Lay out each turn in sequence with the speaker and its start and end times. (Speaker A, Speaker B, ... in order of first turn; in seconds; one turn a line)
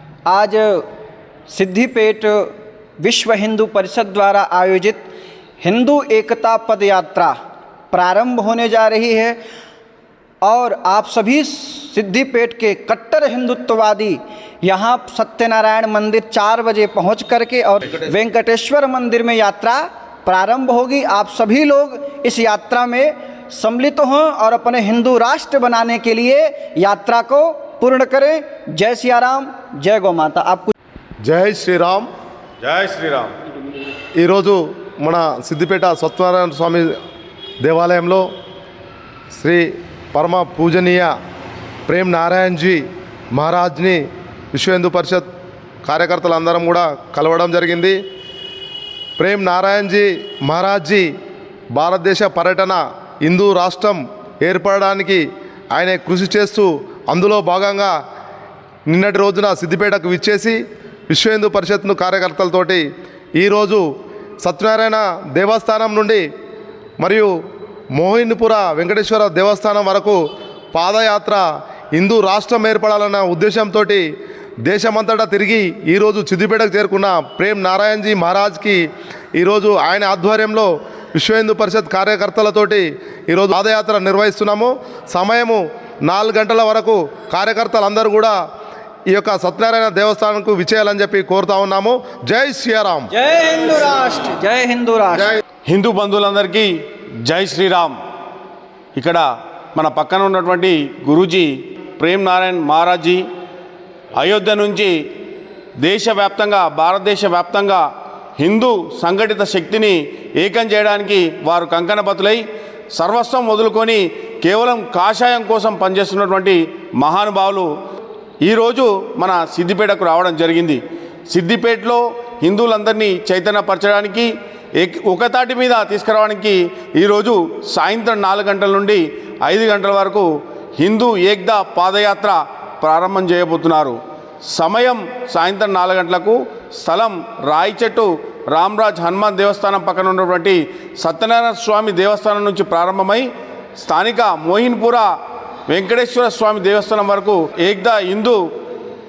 Speaker A: 0.3-0.8
Speaker A: 1.5-5.1
Speaker A: 5.6-7.3
Speaker A: 7.9-9.4
Speaker A: 10.4-30.7
Speaker B: 31.2-32.1
Speaker C: 32.6-33.4
Speaker B: 34.2-36.9
Speaker B: 37.6-38.3
Speaker B: 39.3-41.1
Speaker B: 41.9-45.3
Speaker B: 45.8-48.0
Speaker B: 49.2-51.1
Speaker B: 51.7-57.9
Speaker B: 58.9-60.6
Speaker B: 61.1-62.8
Speaker B: 63.4-63.8
Speaker B: 64.4-66.2
Speaker B: 67.0-67.3
Speaker B: 68.0-70.2
Speaker B: 70.7-74.0
Speaker B: 74.6-78.8
Speaker B: 79.3-88.3
Speaker B: 89.1-93.1
Speaker A: 93.1-95.4
Speaker C: 95.7-98.0
Speaker C: 98.9-103.2
Speaker C: 104.2-104.9
Speaker C: 105.8-107.8
Speaker C: 108.4-117.7
Speaker C: 118.4-145.1
Speaker C: 145.7-148.4